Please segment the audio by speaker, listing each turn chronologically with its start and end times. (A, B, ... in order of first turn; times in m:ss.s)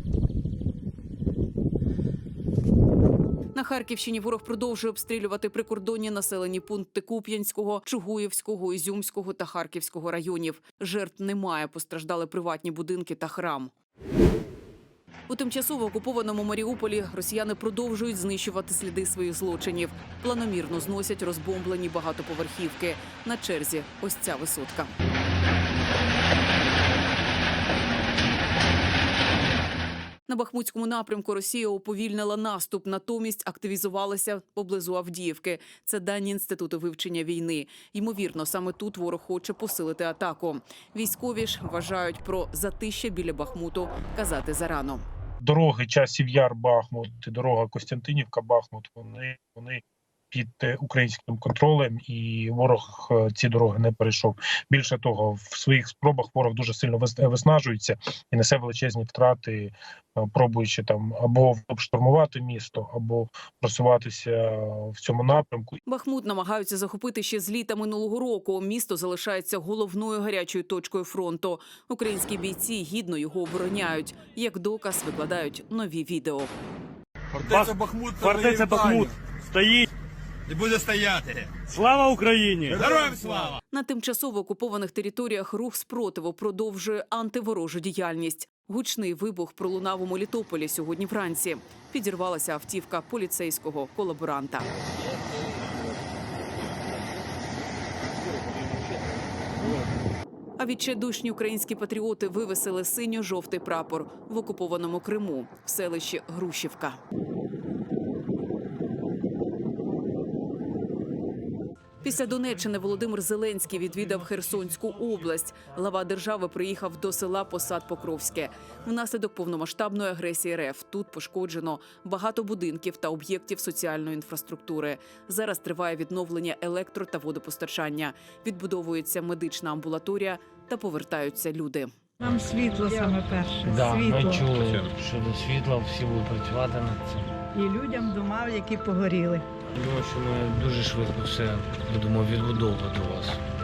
0:03.5-0:13.7 A
0:15.3-0:24.9 A
0:30.3-0:45.0 A
0:45.4-1:05.8 B
1:05.8-1:16.5 A
1:17.3-1:19.1 C
1:17.4-1:19.9 D
1:20.5-1:21.6 C
1:21.7-1:22.8 D
1:22.0-1:22.8 E
1:22.7-1:23.6 C
1:23.7-1:34.7 A
1:40.6-1:47.0 A
1:52.0-2:11.9 A
2:12.2-2:14.5 F
2:13.6-2:17.3 E
2:17.5-2:19.5 F
2:19.7-2:23.4 E